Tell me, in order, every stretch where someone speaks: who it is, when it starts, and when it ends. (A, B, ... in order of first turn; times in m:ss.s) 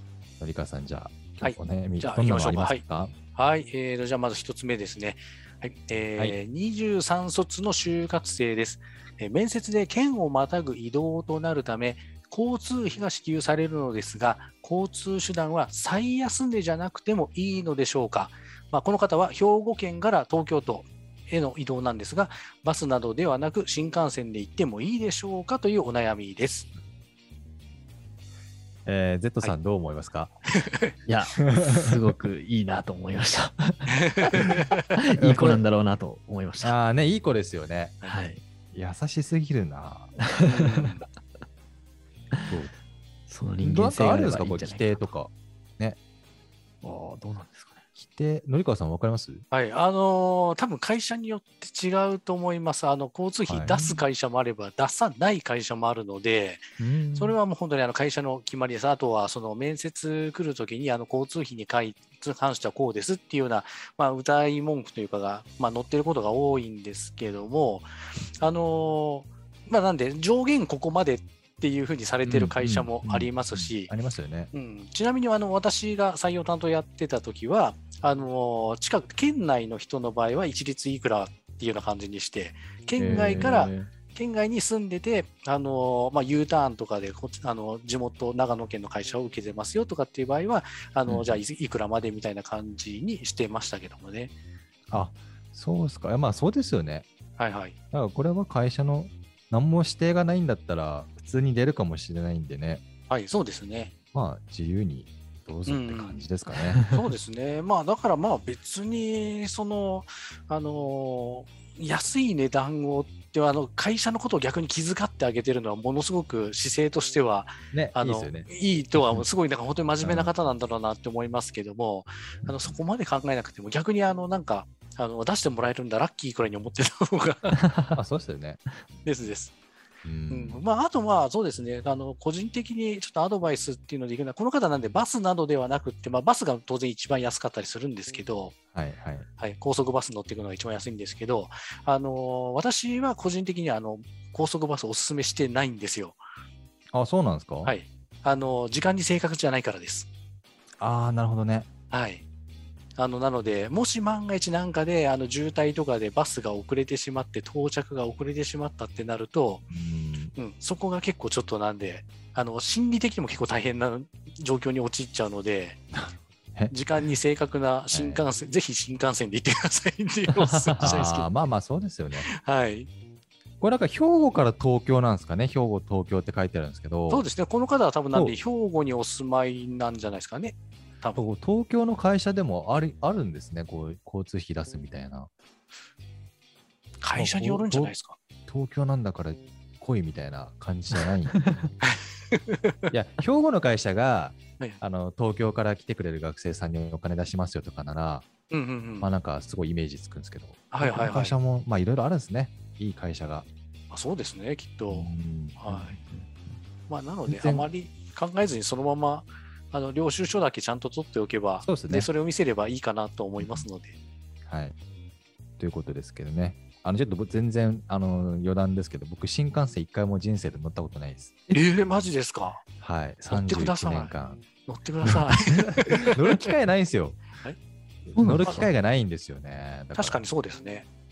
0:00.4-0:03.2 A
0:01.4-0:02.8 B
0:03.4-0:26.7 B
0:28.9-0:30.3 A
0:31.1-0:34.0 C
0:34.0-0:34.9 B
0:35.0-0:36.8 C
0:35.2-0:35.6 A
0:36.6-0:38.0 A
0:38.0-0:38.4 C
0:38.7-0:40.1 A
0:40.4-0:40.9 C
0:40.4-0:41.1 B
0:43.3-0:45.1 C
0:43.6-0:46.0 A
0:46.8-0:47.8 C
0:48.0-0:49.4 A
0:49.5-1:13.9 B
0:53.5-0:54.1 A
0:56.8-0:57.3 C
1:12.3-1:14.5 A
1:14.5-1:34.3 B
1:23.0-1:23.9 A
1:31.1-1:31.4 A
1:34.9-1:37.1 A
1:37.4-1:37.8 B
1:37.9-1:42.8 A
1:43.1-1:43.9 B
1:44.1-1:46.8 A
1:45.7-1:46.3 B
1:46.8-2:07.6 B
1:57.7-1:58.5 A
2:00.0-2:00.3 A
2:07.7-2:07.9 C
2:07.9-2:08.6 A
2:09.0-2:09.5 B
2:10.0-2:10.6 A
2:10.3-2:18.6 B
2:18.7-2:19.3 A
2:19.4-2:26.2 B
2:26.9-2:27.8 A
2:27.6-2:30.1 B
2:30.8-2:31.7 A
2:31.9-2:32.2 B
2:33.0-2:39.6 B
2:39.7-2:40.3 A
2:40.4-2:45.8 B
2:45.9-2:46.8 A
2:46.7-2:51.3 B
2:47.9-2:48.2 A
2:50.3-2:51.1 C
2:50.8-2:52.3 A
2:52.2-2:52.9 B
2:53.6-2:57.2 A
2:57.1-3:01.3 B
3:01.2-3:05.3 A
3:07.0-3:08.2 B
3:07.1-3:07.9 A
3:08.5-3:11.7 A
3:11.9-3:12.7 B
3:12.9-3:18.3 A
3:18.5-3:19.1 B
3:19.0-3:23.5 A
3:20.7-3:21.4 B
3:23.9-3:26.0 B
3:24.9-3:25.6 A
3:25.7-3:26.6 C
3:26.9-3:34.0 B
3:27.3-3:27.7 A
3:31.6-3:32.1 A
3:33.4-3:33.7 A
3:34.5-3:34.8 A
3:35.6-3:41.4 A
3:41.5-3:42.6 B
3:42.8-3:44.4 A
3:43.3-3:44.2 B
3:44.7-3:46.5 B
3:46.0-3:47.2 A
3:48.1-3:50.2 A
3:48.2-3:48.7 C
3:50.0-3:50.9 B